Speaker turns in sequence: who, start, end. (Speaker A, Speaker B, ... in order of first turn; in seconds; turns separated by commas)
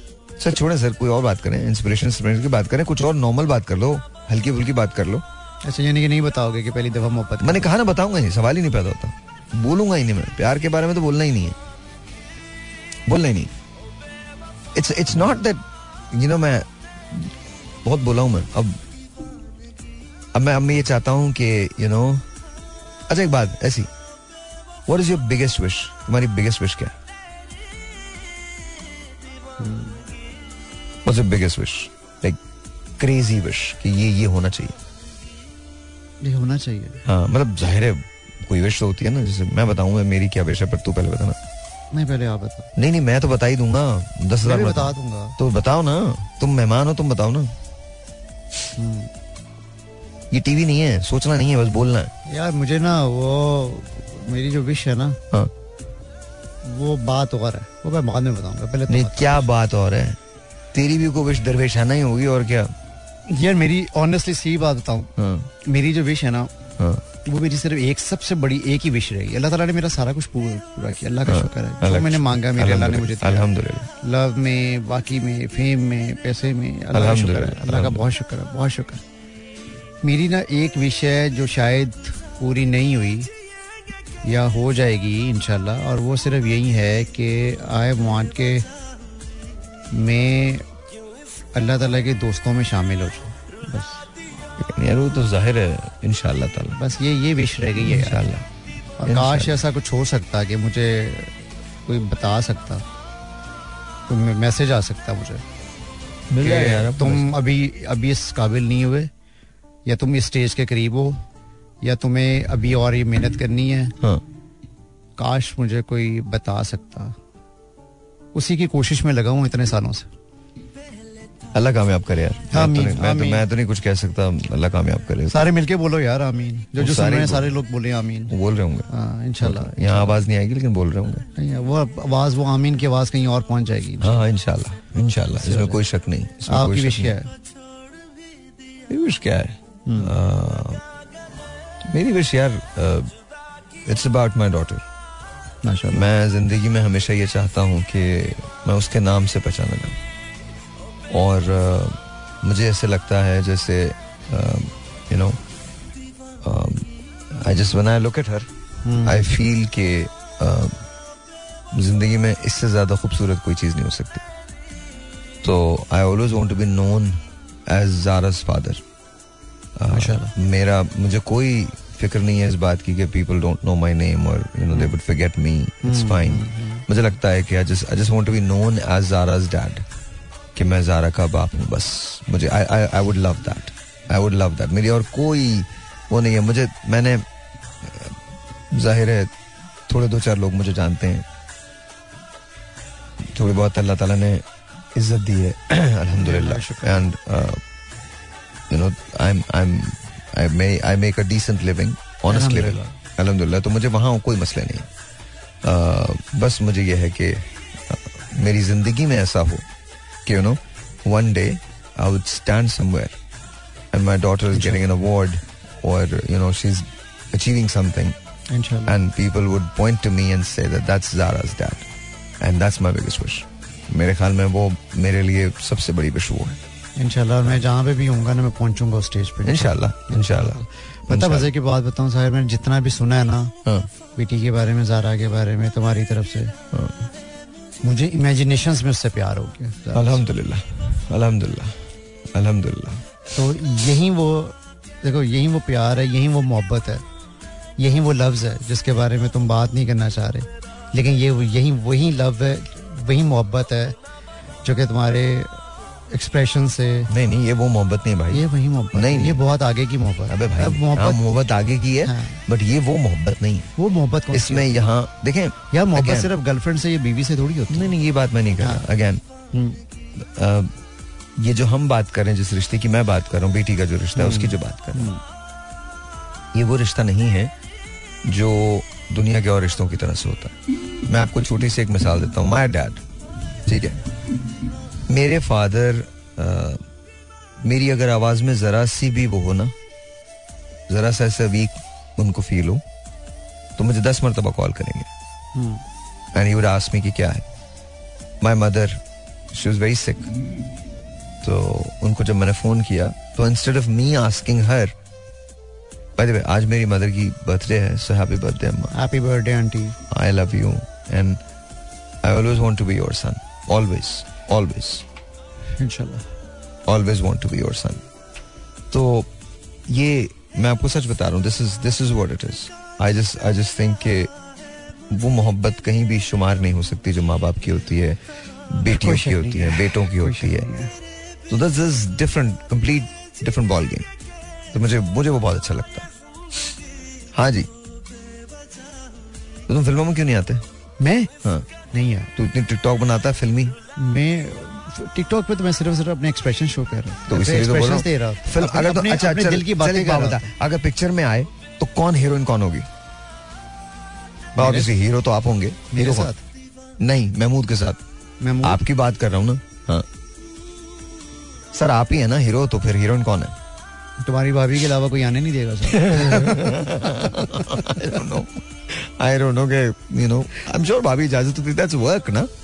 Speaker A: 0.4-5.2, Speaker B: 5.6-7.7, Speaker A: 7.4-11.6, Speaker A: 13.1-13.5, Speaker A: 14.7-18.8, Speaker A: 20.3-22.2, Speaker A: 23.1-23.9, Speaker A: 24.9-26.9, Speaker B: 29.6-30.0, Speaker A: 31.0-32.4, Speaker A: 33.0-34.7, Speaker B: 36.2-37.0, Speaker A: 37.0-41.4, Speaker B: 41.9-42.7, Speaker A: 42.8-47.5, Speaker B: 44.4-45.4, Speaker B: 48.8-49.1, Speaker A: 50.3-52.1, Speaker B: 52.2-55.2, Speaker B: 56.6-59.5, Speaker A: 58.9-60.2, Speaker A: 60.7-62.7, Speaker B: 63.3-66.5, Speaker A: 65.2-65.5, Speaker B: 67.2-73.5, Speaker A: 71.3-73.9, Speaker B: 74.0-79.0, Speaker A: 76.9-78.0, Speaker B: 80.0-83.3, Speaker B: 84.2-88.7, Speaker B: 89.9-90.7, Speaker B: 91.5-94.0, Speaker A: 94.6-96.8, Speaker B: 96.8-98.2, Speaker A: 97.8-98.5, Speaker B: 99.0-102.8, Speaker A: 99.0-99.6, Speaker B: 104.1-105.4, Speaker A: 106.3-107.3, Speaker B: 106.4-109.1, Speaker B: 109.8-111.2, Speaker B: 111.8-114.0, Speaker B: 115.2-117.2, Speaker B: 118.3-120.1, Speaker A: 121.5-125.5, Speaker B: 122.5-123.4, Speaker B: 125.3-128.3, Speaker A: 126.8-127.6, Speaker A: 128.3-128.9, Speaker B: 128.9-130.2, Speaker A: 129.4-131.2, Speaker B: 131.3-134.2, Speaker A: 134.0-137.2, Speaker B: 135.4-135.8, Speaker B: 136.5-137.3, Speaker A: 138.9-140.8, Speaker B: 139.8-140.1, Speaker A: 141.9-143.1, Speaker A: 143.8-144.8, Speaker B: 145.6-146.1, Speaker A: 145.9-150.0, Speaker A: 151.1-155.4, Speaker A: 156.4-158.5, Speaker B: 158.8-159.2, Speaker A: 159.0-160.8, Speaker A: 161.7-164.2, Speaker A: 165.4-168.8, Speaker A: 169.8-179.8, Speaker B: 169.9-170.3, Speaker B: 175.8-176.8, Speaker A: 180.6-187.2, Speaker A: 187.8-188.2, Speaker A: 188.7-189.3, Speaker A: 189.9-191.2, Speaker A: 193.3-197.6, Speaker B: 196.1-197.1, Speaker A: 198.7-204.9, Speaker B: 202.3-202.9, Speaker A: 205.6-209.7, Speaker A: 210.2-213.2, Speaker A: 213.9-218.2, Speaker B: 214.5-214.8, Speaker B: 218.5-218.9, Speaker A: 218.9-221.8, Speaker A: 222.4-226.6, Speaker B: 226.9-233.5, Speaker A: 229.4-231.5, Speaker B: 234.2-236.5, Speaker A: 236.7-237.1, Speaker B: 237.8-240.2, Speaker A: 239.9-241.8, Speaker A: 242.3-243.0, Speaker B: 243.3-247.0, Speaker B: 247.8-254.0, Speaker B: 254.6-257.1, Speaker A: 257.1-259.4, Speaker B: 258.3-261.3, Speaker A: 260.3-263.7, Speaker B: 262.0-262.4, Speaker B: 263.8-264.7, Speaker A: 264.3-266.3, Speaker B: 265.7-267.9, Speaker A: 267.7-269.2, Speaker B: 268.6-268.9, Speaker B: 269.5-269.8, Speaker A: 270.1-270.7, Speaker A: 271.4-275.1, Speaker B: 274.1-275.2, Speaker A: 276.5-277.5, Speaker A: 278.2-283.0, Speaker A: 283.6-284.0, Speaker A: 285.1-286.8, Speaker A: 287.6-289.7, Speaker A: 290.9-292.8, Speaker A: 293.8-295.1, Speaker B: 295.5-295.8, Speaker A: 296.3-297.4, Speaker A: 298.4-299.0, Speaker A: 299.5-300.3, Speaker A: 301.4-304.9, Speaker A: 306.2-308.9, Speaker B: 308.9-310.0, Speaker A: 310.1-311.4, Speaker A: 312.2-315.0, Speaker B: 315.8-316.2, Speaker A: 316.9-318.0, Speaker A: 318.9-319.3, Speaker A: 319.9-324.3, Speaker A: 325.1-330.7, Speaker B: 328.9-330.9, Speaker A: 331.5-334.1, Speaker A: 334.7-336.1, Speaker A: 337.3-337.7, Speaker A: 339.7-340.6, Speaker B: 341.0-341.3, Speaker B: 341.9-342.3, Speaker A: 342.4-343.8, Speaker B: 343.9-350.5, Speaker A: 347.3-352.9, Speaker B: 354.6-354.9, Speaker A: 354.6-356.3, Speaker B: 355.9-356.4, Speaker A: 357.0-358.0, Speaker B: 358.4-358.8, Speaker A: 358.6-360.1, Speaker A: 361.7-363.5, Speaker B: 364.2-368.0, Speaker A: 365.9-372.5